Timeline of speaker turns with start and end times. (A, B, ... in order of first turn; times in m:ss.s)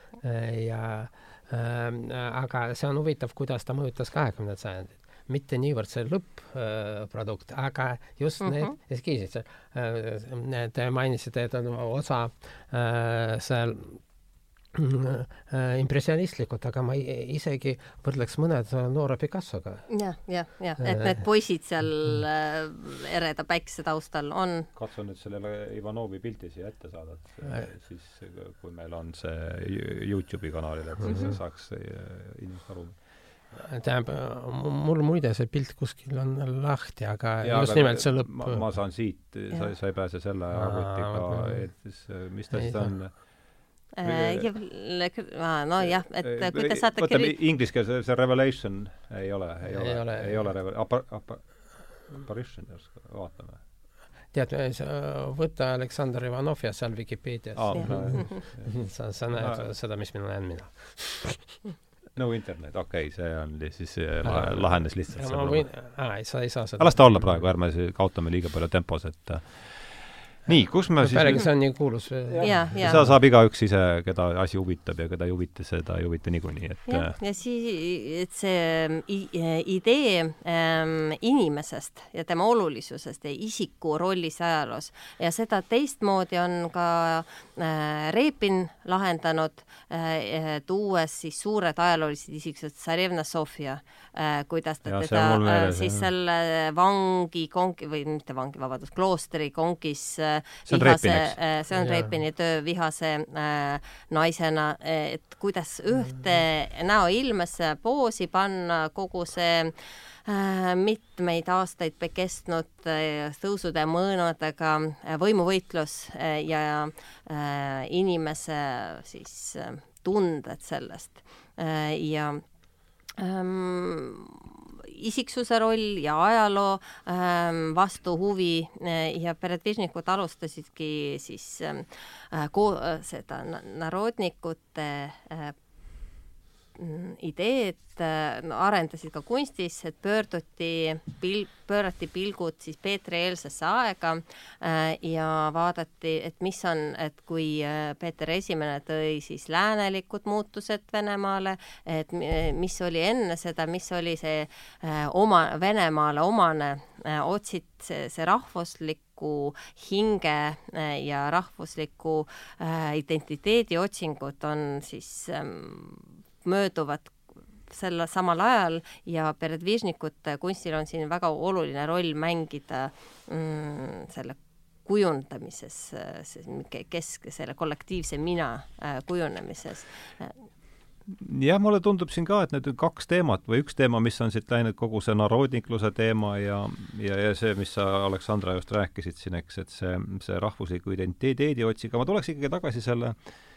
0:00.2-0:14.0 A
0:08.4-0:08.7 B
0:14.7-0:19.9 A
0:19.9-0:24.7 B
0:20.8-0:21.3 A
0:24.7-0:33.0 C
0:27.4-0:27.7 A
0:31.0-0:31.3 A
0:31.0-0:31.3 B
0:33.6-0:38.6 A
0:37.4-0:43.2 C
0:40.5-0:41.7 A
0:42.5-0:43.0 A
0:43.9-0:47.3 B
0:44.0-0:44.5 C
0:45.8-0:53.6 C
0:49.6-0:50.5 A
0:54.3-1:01.6 A
0:57.6-0:59.7 C
0:57.7-0:58.4 B
1:02.2-1:05.7 C
1:04.2-1:07.4 A
1:06.8-1:11.7 C
1:10.5-1:13.1 A
1:12.3-1:17.2 C
1:12.4-1:13.0 B
1:16.9-2:02.4 B
1:34.8-1:36.1 C
1:40.6-1:41.4 C
1:41.7-1:42.1 A
2:03.2-2:15.5 B
2:16.8-2:47.1 B
2:47.7-3:00.4 B
3:01.0-3:13.2 C